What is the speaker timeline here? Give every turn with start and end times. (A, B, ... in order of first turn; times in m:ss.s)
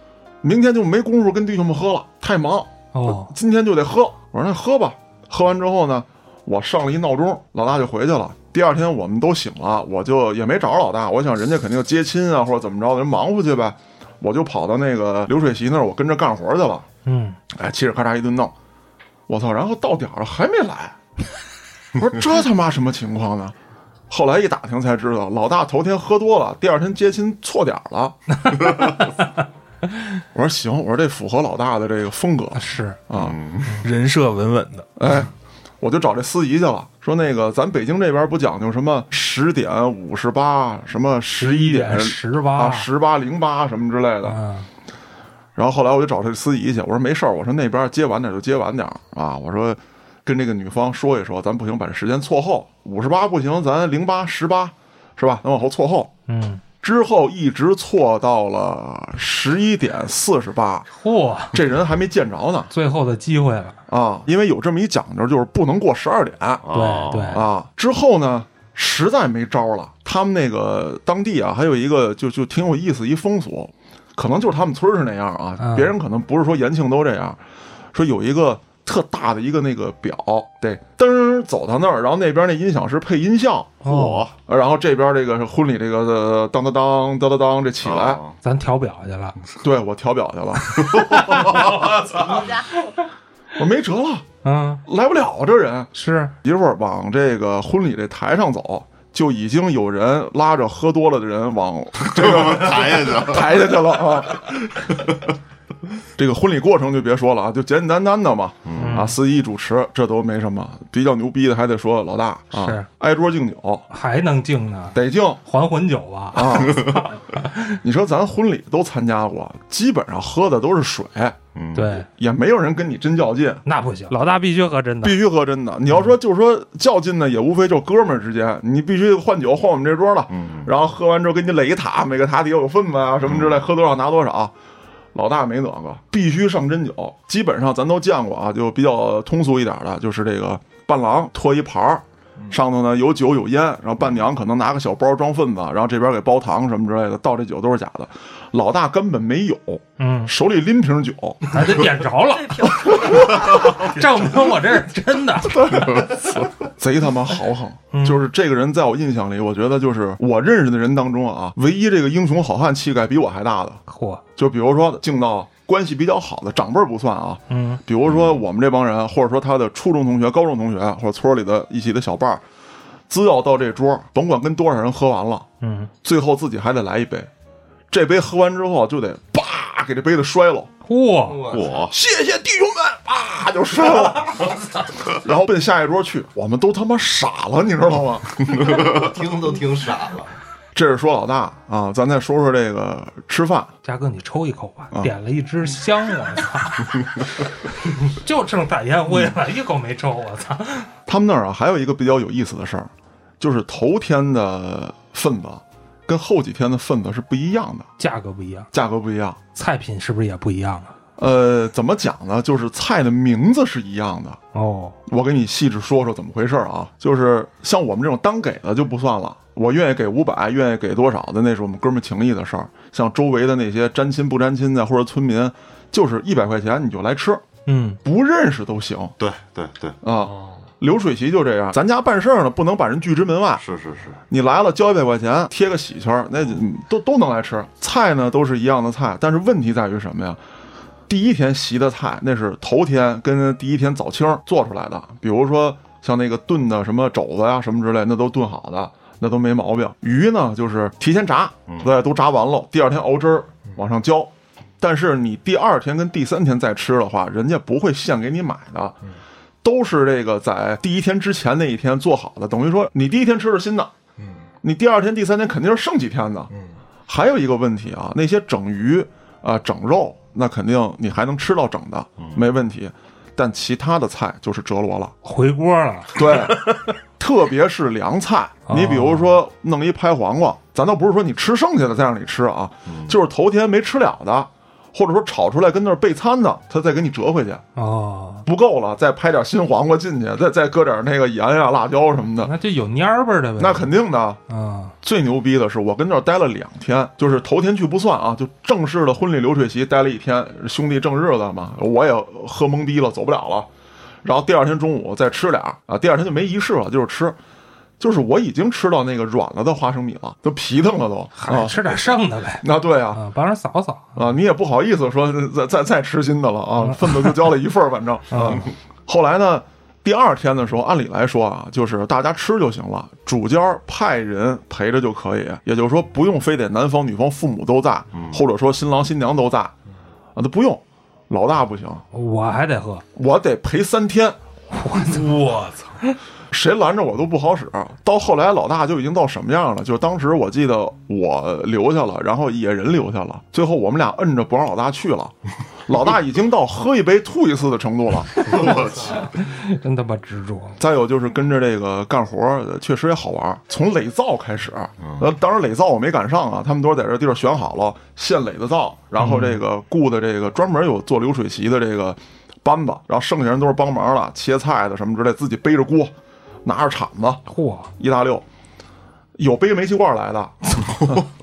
0:00.4-0:16.9 A
0:02.9-0:03.3 B
0:17.0-0:17.4 B
0:17.5-0:18.5 A
0:19.3-0:21.0 A
0:22.0-0:23.6 A
0:24.1-0:28.2 A
0:28.5-0:29.1 B
0:30.3-0:33.4 A
0:32.6-0:33.0 B
0:33.1-0:33.8 C
0:33.8-0:34.9 D
0:35.0-0:44.4 A
0:41.4-0:42.9 B
0:44.2-0:44.7 B
0:45.6-0:56.1 A
0:56.3-0:56.6 B
0:56.8-1:00.9 A
1:00.9-1:01.6 B
1:01.5-1:02.7 A
1:02.7-1:03.8 B
1:03.9-1:06.6 A
1:06.6-1:07.5 C
1:06.7-1:07.5 B
1:07.3-1:17.4 A
1:15.6-1:15.9 B
1:17.9-1:28.2 A
1:23.8-1:24.2 B
1:23.8-1:24.3 C
1:27.8-1:28.4 C
1:28.4-1:29.4 B
1:29.6-1:31.2 A
1:30.9-1:32.0 C
1:31.0-1:32.0 B
1:32.2-1:32.6 E
1:33.6-1:34.3 A
1:34.4-1:34.8 B
1:34.9-1:44.9 A
1:35.9-1:36.3 B
1:42.0-1:43.7 C
1:46.2-1:53.9 A
1:48.7-1:49.1 C
1:48.7-1:49.2 B
1:52.5-1:52.9 B
1:53.9-1:57.8 B
1:54.9-1:55.4 A
1:56.3-1:57.0 A
1:57.8-2:01.4 A
2:01.6-2:02.0 C
2:01.8-2:02.1 B
2:02.1-2:03.6 A
2:03.6-2:05.2 B
2:05.0-2:14.5 A
2:10.3-2:10.7 C
2:13.2-2:13.6 C
2:15.1-2:31.8 A
2:30.0-2:30.3 B
2:31.5-2:36.0 B
2:32.3-2:34.0 E
2:35.5-2:43.8 A
2:37.9-2:38.2 B
2:43.9-2:44.2 B
2:44.4-2:52.4 A
2:47.5-2:47.8 B
2:48.1-2:48.4 C
2:53.1-2:55.5 A
2:55.6-2:55.9 B
2:56.0-2:57.3 A
2:57.9-3:00.7 A
3:00.9-3:01.5 B
3:01.3-3:01.7 F
3:01.5-3:02.0 C
3:01.9-3:08.7 A
3:08.8-3:10.3 F
3:10.8-3:13.7 A
3:13.8-3:20.9 B
3:21.1-3:27.9 A
3:28.0-3:28.7 B
3:28.7-3:29.4 A
3:29.6-3:30.9 B
3:31.2-3:34.4 A
3:34.5-3:35.0 B
3:35.1-3:47.5 A
3:47.7-3:48.0 B
3:48.0-3:49.2 A
3:49.2-3:50.0 C
3:50.0-3:53.6 A
3:50.3-3:50.6 D
3:53.6-3:54.2 C
3:54.3-4:00.4 A
4:01.1-4:19.0 A
4:19.6-4:23.9 A
4:24.2-4:24.4 D
4:24.6-4:26.5 A
4:27.1-4:35.2 A
4:32.2-4:32.5 C
4:35.2-4:36.3 B
4:36.1-4:47.6 A
4:38.7-4:39.4 B
4:42.9-4:43.2 C
4:47.8-4:48.4 B
4:48.4-4:52.5 A
4:52.4-4:53.9 B
4:53.6-4:54.4 A
4:54.5-4:54.9 B
4:55.0-5:03.7 A
5:04.2-5:07.4 A
5:08.0-5:12.0 A
5:11.4-5:14.2 B
5:12.6-5:13.2 A
5:14.2-5:29.7 A
5:16.8-5:17.4 B
5:18.3-5:18.7 B
5:28.1-5:28.4 C
5:30.4-5:32.0 A
5:32.1-5:33.0 B
5:33.2-5:34.4 A
5:34.7-5:35.3 B
5:35.0-5:36.0 D
5:36.5-5:45.3 A
5:45.9-5:48.7 A
5:48.4-5:50.8 B
5:50.8-6:06.1 A
5:59.2-5:59.6 B
6:06.6-6:07.4 A
6:07.5-6:07.9 B
6:08.0-6:08.4 A
6:09.4-6:11.2 A